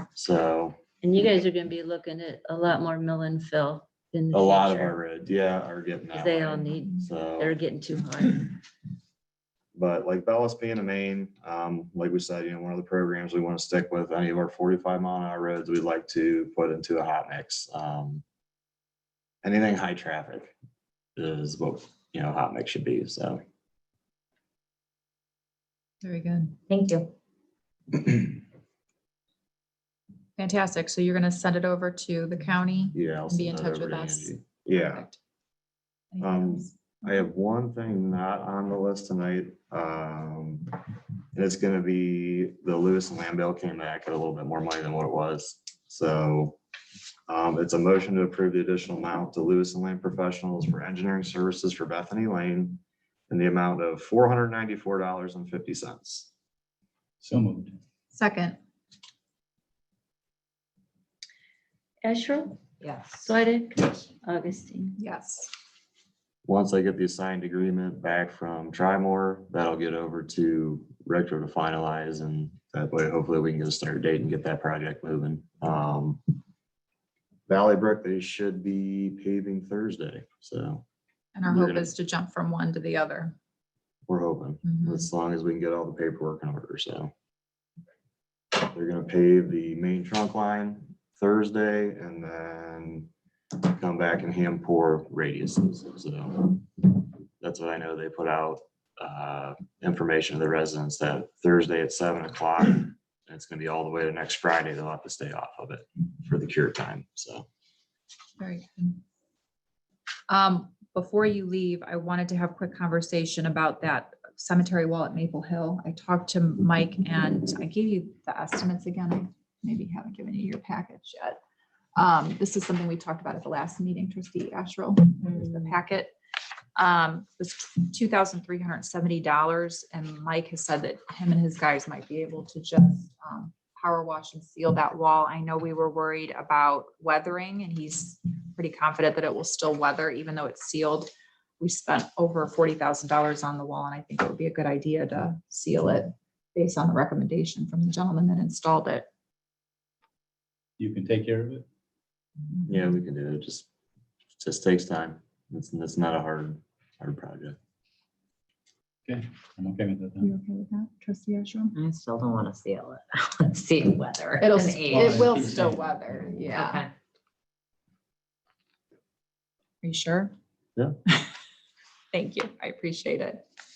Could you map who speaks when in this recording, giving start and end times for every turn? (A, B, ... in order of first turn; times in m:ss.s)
0:00.1-0:00.8 A
0:01.0-0:05.0 B
0:04.3-0:07.6 A
0:06.1-0:08.6 B
0:09.7-0:18.2 A
0:19.4-0:20.5 A
0:21.2-0:23.4 A
0:26.0-0:26.6 C
0:26.7-0:27.1 D
0:30.4-0:35.2 C
0:32.9-0:35.1 A
0:36.1-0:37.0 C
0:36.2-0:40.7 A
0:41.3-0:46.6 A
0:47.3-0:56.3 A
0:57.2-0:57.8 E
0:58.1-0:58.6 C
1:02.0-1:02.6 B
1:02.8-1:03.2 D
1:03.1-1:05.0 B
1:05.0-1:05.5 C
1:06.4-1:16.2 A
1:17.5-1:20.8 A
1:21.3-1:23.4 C
1:21.5-1:21.9 A
1:24.1-1:27.1 A
1:24.6-1:25.0 C
1:28.6-1:33.1 A
1:33.6-1:47.5 A
1:48.4-1:49.0 C
1:50.3-2:01.4 C
2:02.0-2:06.1 C
2:06.8-2:29.1 C
2:30.8-2:31.6 E
2:32.6-2:33.7 A
2:34.4-2:37.6 A
2:39.0-2:40.3 E
2:40.2-2:41.7 C
2:41.7-2:45.1 D
2:44.4-2:46.8 C
2:44.8-2:45.9 E
2:46.5-2:46.9 D
2:49.8-2:50.3 C
2:52.1-2:53.4 C